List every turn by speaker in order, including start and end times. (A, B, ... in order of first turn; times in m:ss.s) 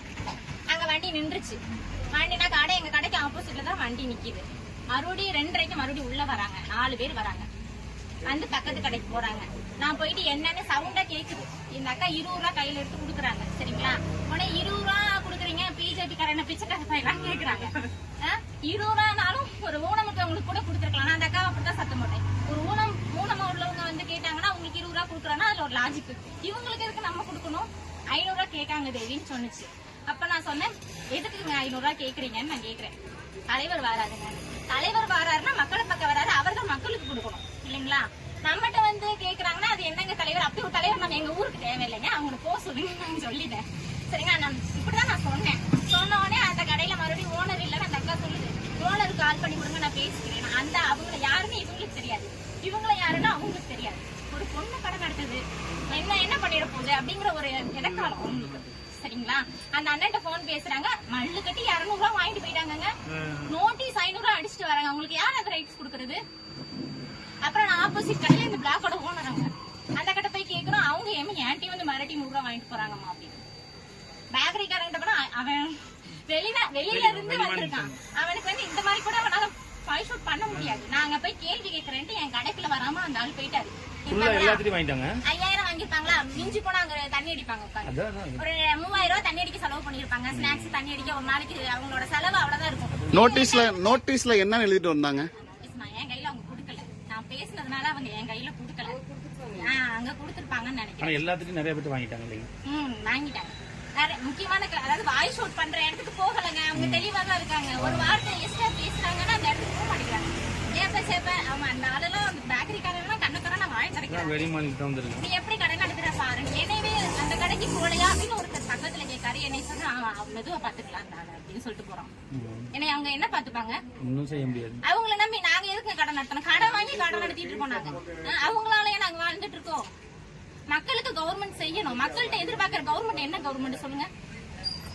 0:00.7-0:01.6 A
0:02.1-0:07.5 A
0:08.2-0:32.9 A
0:33.5-1:02.9 A
0:57.8-0:58.6 B
1:03.1-1:03.5 B
1:03.5-1:06.2 A
1:07.4-1:13.4 A
1:14.3-1:24.6 A
1:16.9-1:17.9 B
1:20.5-1:20.8 B
1:24.1-1:25.2 B
1:25.2-1:34.0 A
1:27.8-1:28.4 B
1:30.3-1:30.8 B
1:32.9-1:33.3 B
1:33.1-1:35.3 C
1:35.3-1:39.0 A
1:39.5-1:41.2 A
1:41.0-1:42.5 B
1:42.6-1:54.4 A
1:46.7-1:47.1 B
1:47.8-1:48.2 B
1:54.1-1:55.2 B
1:55.2-2:02.1 A
2:02.3-2:02.7 B
2:02.7-2:03.8 A
2:04.0-2:04.8 B
2:04.8-2:09.9 A
2:10.7-2:14.1 A